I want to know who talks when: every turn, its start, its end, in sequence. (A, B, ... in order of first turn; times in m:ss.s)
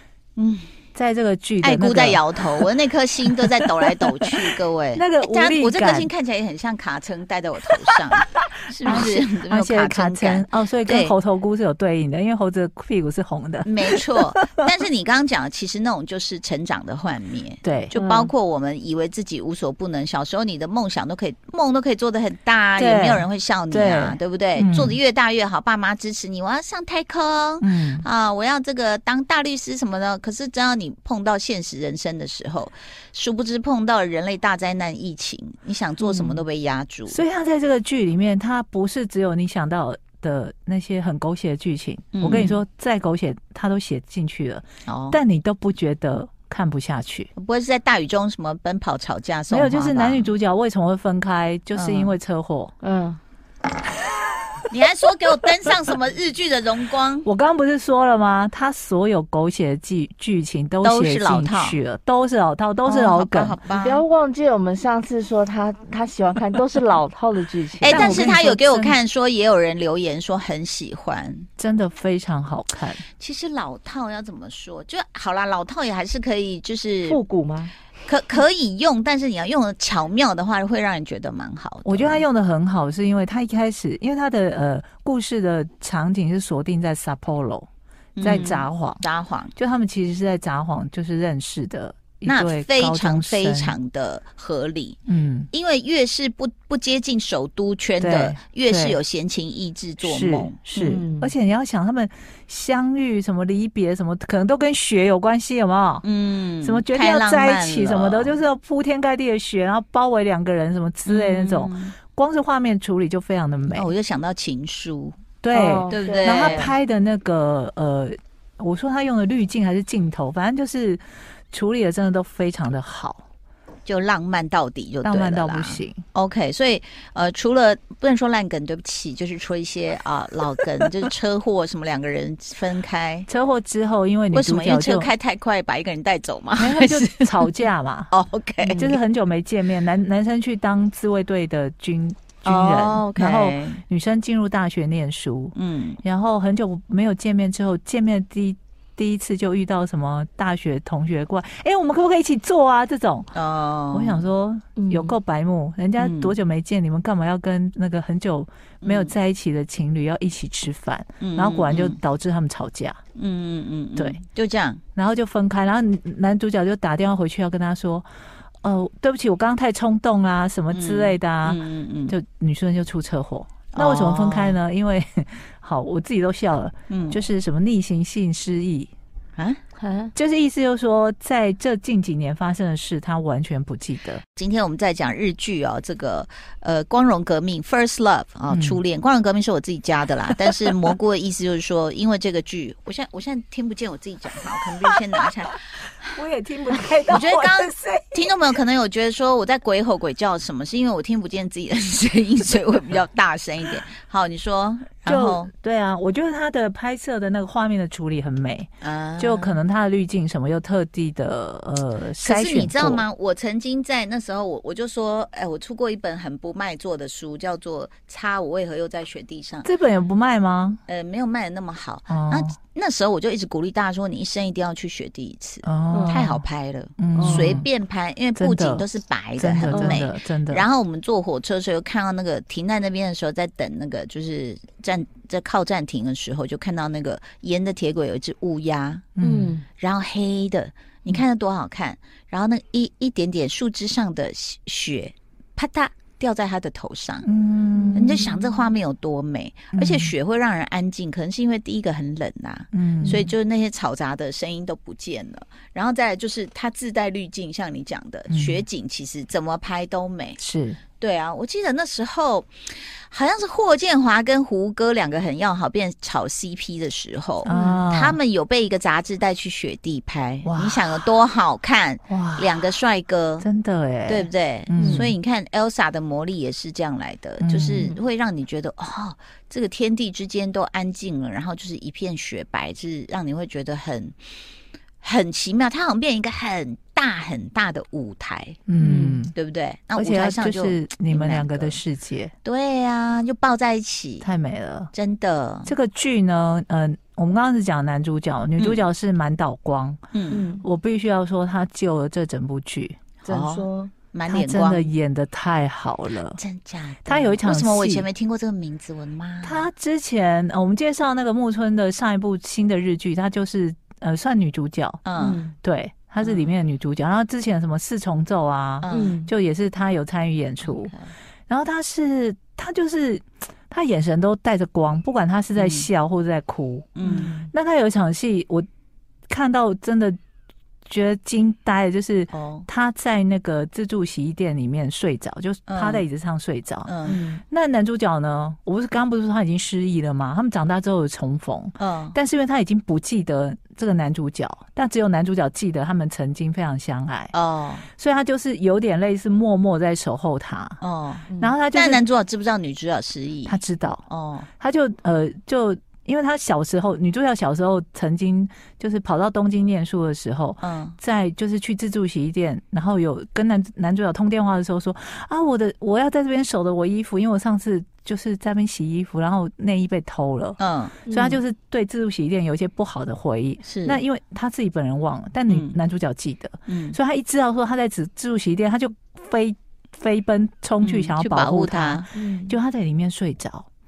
0:00.4-0:00.7 A
0:00.9-0:02.7 B
0:01.6-0:11.1 A
0:03.9-0:06.1 B
0:08.8-0:14.7 B
0:13.6-0:37.2 A
0:17.6-0:17.9 B
0:17.9-0:18.3 C
0:22.8-0:25.0 B
0:27.6-0:28.0 B
0:36.0-0:36.4 B
0:37.1-0:47.3 B
0:42.1-0:42.6 A
0:44.9-0:45.2 A
0:47.3-0:50.3 A
0:49.5-0:52.7 B
0:51.7-0:52.1 A
0:52.8-0:53.2 C
0:54.7-0:57.3 A
0:57.2-1:03.6 B
1:00.8-1:01.8 A
1:02.8-1:04.0 A
1:03.7-1:08.2 C
1:07.8-1:11.5 A
1:07.8-1:09.0 B
1:11.6-1:13.0 B
1:13.2-1:17.2 A
1:17.0-1:17.7 C
1:18.0-1:22.2 A
1:21.8-1:27.6 B
1:28.2-1:29.5 A
1:28.2-1:29.0 B
1:29.6-1:33.8 B
1:32.2-1:35.0 A
1:35.0-1:35.5 B
1:35.5-1:41.0 A
1:38.0-1:39.0 B
1:40.0-1:46.0 B
1:40.8-1:41.3 C
1:46.0-1:48.4 A
1:46.6-1:53.9 B
1:51.0-1:51.9 A
1:53.7-1:55.2 A
1:55.4-2:03.2 B
1:55.5-1:56.7 C
1:55.9-1:56.7 A
2:03.8-2:13.3 A
2:05.0-2:06.0 B
2:13.3-2:15.1 B
2:14.3-2:17.5 A
2:16.6-2:18.1 B
2:18.1-2:19.0 A
2:18.6-2:18.9 C
2:18.7-2:33.3 B
2:22.4-2:23.8 A
2:25.5-2:26.0 A
2:33.3-2:34.2 A
2:33.9-2:43.0 B
2:34.8-2:35.1 C
2:36.0-2:36.3 A
2:38.8-2:39.1 A
2:41.2-2:42.0 A
2:43.2-2:44.8 A
2:45.0-2:48.0 B
2:48.6-2:58.9 B
2:50.7-2:52.1 A
2:53.7-2:54.6 A
2:56.9-2:57.2 A
2:59.8-3:00.1 C
3:00.1-3:04.2 B
3:04.4-3:16.1 A
3:08.5-3:08.8 B
3:16.1-3:18.4 B
3:17.1-3:25.5 A
3:25.0-3:33.0 B
3:28.8-3:29.6 A
3:32.2-3:39.7 A
3:39.6-3:40.8 B
3:40.9-3:59.0 A
3:42.1-3:42.5 B
3:45.6-3:46.4 B
3:45.9-3:46.3 C
3:47.0-3:47.7 B
3:47.2-3:47.6 C
3:48.4-3:48.8 B
3:49.4-3:50.6 B
3:49.7-3:50.0 C
3:59.2-3:59.6 B
3:59.2-3:59.6 C
3:59.8-4:07.3 A
4:07.2-4:08.4 B
4:07.9-4:20.4 A
4:09.7-4:10.1 B
4:12.7-4:13.3 B
4:18.3-4:18.6 B
4:20.4-4:20.8 B
4:21.0-4:22.5 A
4:23.1-4:33.5 A
4:27.4-4:28.2 B
4:27.4-4:27.8 C
4:30.4-4:31.0 B
4:32.1-4:32.5 B
4:33.4-4:35.1 B
4:34.1-4:44.2 A
4:34.8-4:35.1 C
4:37.4-4:37.9 B
4:45.0-4:48.6 A
4:48.7-4:49.3 B
4:48.8-4:49.2 C
4:49.3-4:51.8 A
4:50.0-4:52.3 B
4:52.4-4:54.3 A
4:54.2-4:54.9 B
4:54.9-4:55.7 A
4:55.6-5:00.1 B
4:58.6-4:58.8 A
5:00.1-5:00.4 A
5:00.3-5:00.6 C
5:00.6-5:03.0 B
5:03.2-5:04.9 A
5:03.2-5:03.9 C
5:04.3-5:06.4 B
5:06.4-5:09.7 A
5:07.0-5:08.1 B
5:09.4-5:15.1 B
5:15.0-5:15.4 A
5:15.2-5:15.5 C
5:15.6-5:20.9 B
5:16.2-5:16.5 A
5:18.8-5:19.2 A
5:18.9-5:19.3 C
5:20.6-5:21.1 A
5:21.5-5:28.6 B
5:25.5-5:25.9 A
5:27.0-5:27.3 A
5:27.0-5:27.5 C
5:29.3-5:30.2 B
5:30.8-5:36.9 B
5:32.3-5:32.7 A
5:35.7-5:36.0 A
5:36.8-5:37.2 A
5:37.0-5:37.4 C
5:37.5-5:47.3 B
5:41.8-5:42.2 A
5:47.3-5:47.9 A
5:48.0-5:50.8 B
5:50.8-5:54.5 A
5:51.3-5:51.5 C
5:51.4-5:52.0 B
5:53.4-5:54.0 B
5:54.6-6:23.7 B
6:00.6-6:01.0 A
6:10.6-6:10.9 A
6:11.1-6:11.4 C
6:13.6-6:14.0 A
6:15.5-6:15.8 A
6:16.7-6:17.0 A
6:20.8-6:22.1 A
6:22.1-6:22.6 C